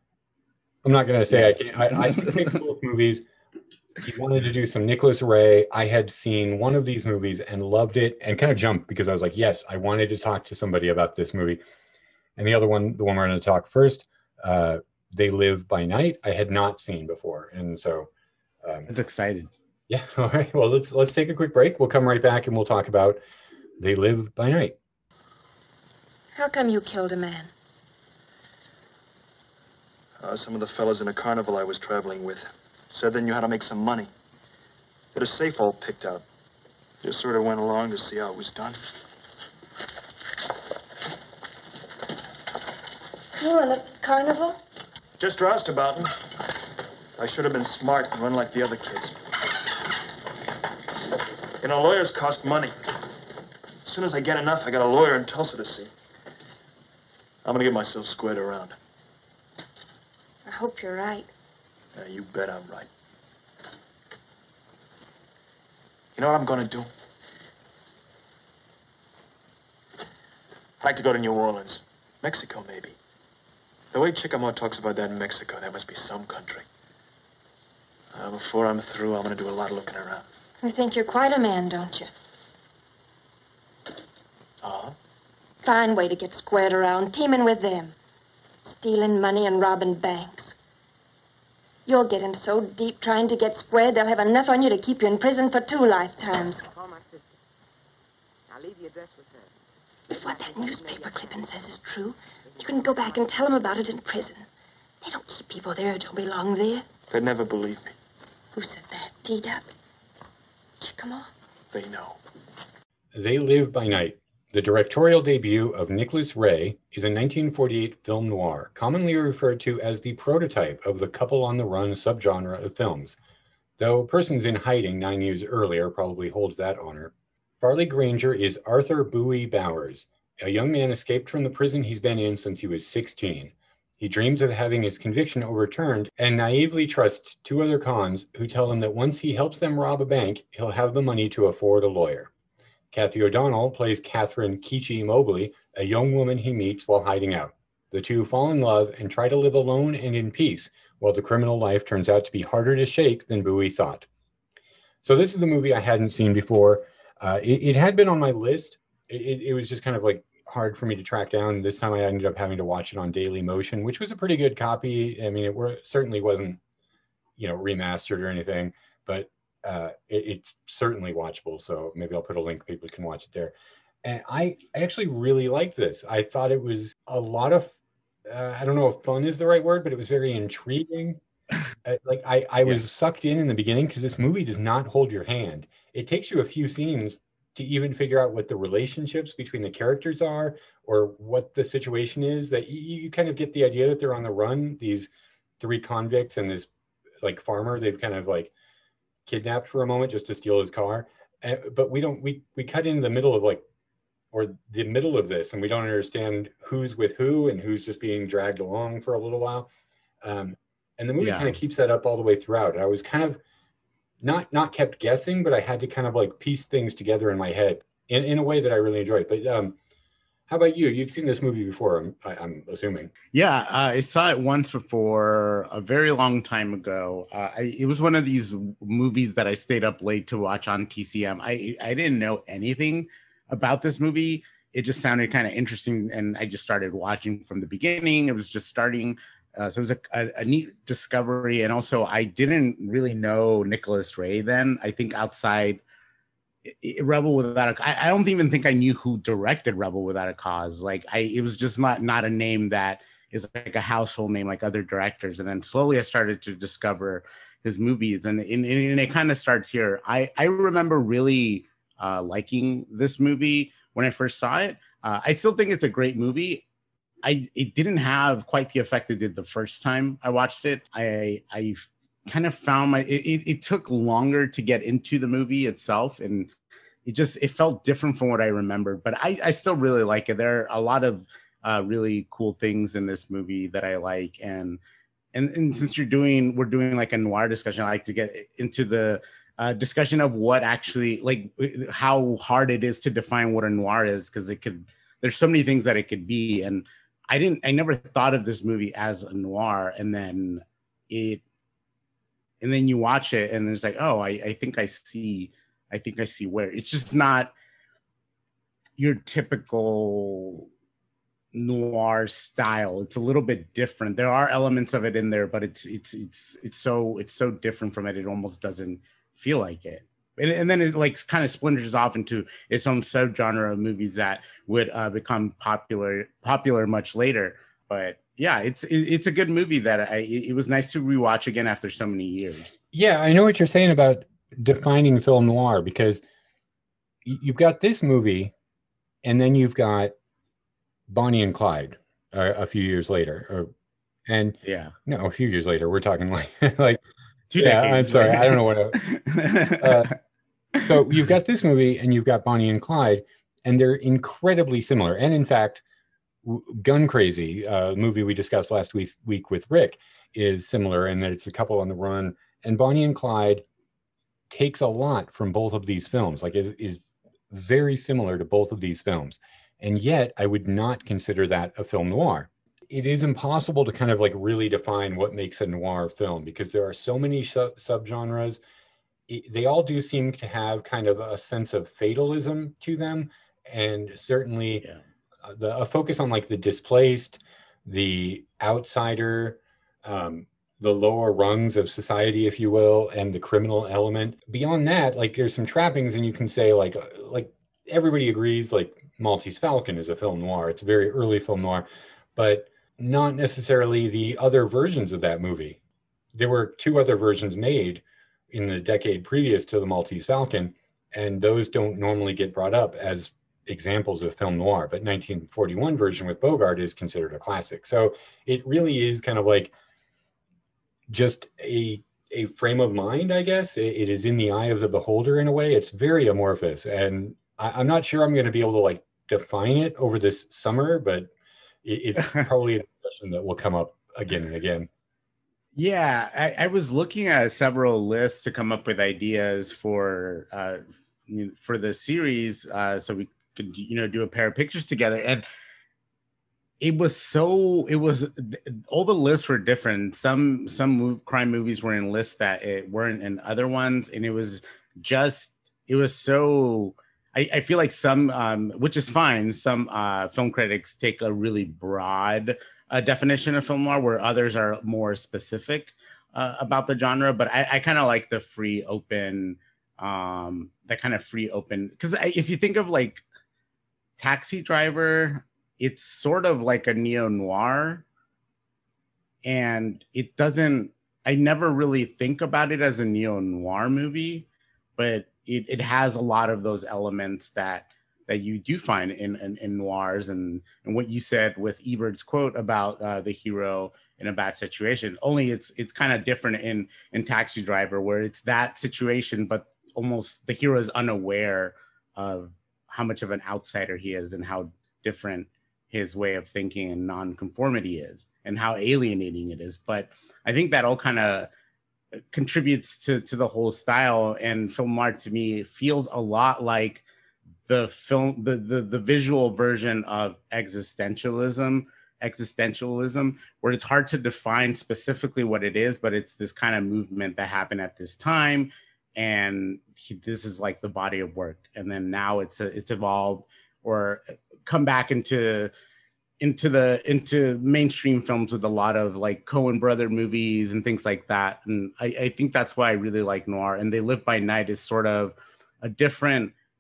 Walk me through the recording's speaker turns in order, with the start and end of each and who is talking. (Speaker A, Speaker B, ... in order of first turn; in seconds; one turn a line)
Speaker A: 0.8-3.2
Speaker B: 1.3-2.2
Speaker A: 4.0-11.6
Speaker A: 12.4-18.1
Speaker A: 18.6-18.9
Speaker B: 18.9-19.5
Speaker A: 19.9-23.2
Speaker A: 23.8-24.8
Speaker C: 26.3-27.5
Speaker D: 30.2-34.1
Speaker D: 35.1-36.2
Speaker D: 37.0-38.8
Speaker C: 43.4-44.6
Speaker D: 45.2-46.6
Speaker D: 47.2-49.3
Speaker D: 51.5-53.0
Speaker D: 53.8-55.9
Speaker D: 57.4-58.8
Speaker C: 60.5-61.3
Speaker D: 61.9-62.9
Speaker D: 66.1-66.9
Speaker D: 70.8-73.0
Speaker D: 73.9-76.7
Speaker D: 78.1-80.2
Speaker C: 80.6-82.1
Speaker D: 84.6-84.9
Speaker C: 85.6-87.9
Speaker C: 88.6-90.5
Speaker C: 91.8-96.7
Speaker E: 96.7-97.3
Speaker E: 98.5-99.5
Speaker E: 100.1-101.4
Speaker C: 100.1-104.5
Speaker E: 102.5-103.3
Speaker C: 105.0-106.8
Speaker D: 107.1-107.9
Speaker C: 108.5-109.7
Speaker C: 110.8-111.3
Speaker D: 111.7-112.2
Speaker A: 113.1-123.2
Speaker A: 123.8-142.3
Speaker A: 142.9-154.1
Speaker A: 155.0-166.6
Speaker A: 167.4-177.8
Speaker A: 178.3-181.2
Speaker A: 181.8-195.1
Speaker A: 195.6-196.7
Speaker A: 197.2-198.5
Speaker A: 199.2-203.6
Speaker A: 204.3-209.7
Speaker A: 210.2-213.4
Speaker B: 211.2-211.6
Speaker A: 214.2-219.8
Speaker A: 220.5-223.1
Speaker B: 223.3-245.8
Speaker B: 246.6-266.6
Speaker B: 267.2-276.5
Speaker B: 277.0-284.8
Speaker B: 285.3-301.4
Speaker B: 302.6-307.5
Speaker B: 309.0-310.7
Speaker B: 311.5-332.8
Speaker A: 332.9-336.2
Speaker A: 337.2-338.5
Speaker A: 339.2-340.1
Speaker A: 341.1-343.7
Speaker A: 344.3-347.0
Speaker B: 344.6-344.9
Speaker B: 347.5-350.1
Speaker A: 347.6-349.0
Speaker A: 349.7-350.1
Speaker A: 350.8-355.8
Speaker A: 356.4-363.6
Speaker A: 364.5-378.6
Speaker A: 379.3-384.8
Speaker A: 385.4-405.8
Speaker A: 406.3-419.7
Speaker A: 421.1-431.3
Speaker A: 431.8-434.9
Speaker B: 435.7-445.4
Speaker B: 446.8-473.2
Speaker B: 474.2-478.0
Speaker B: 479.4-511.5
Speaker B: 512.1-517.0
Speaker B: 517.7-535.7
Speaker B: 536.4-546.5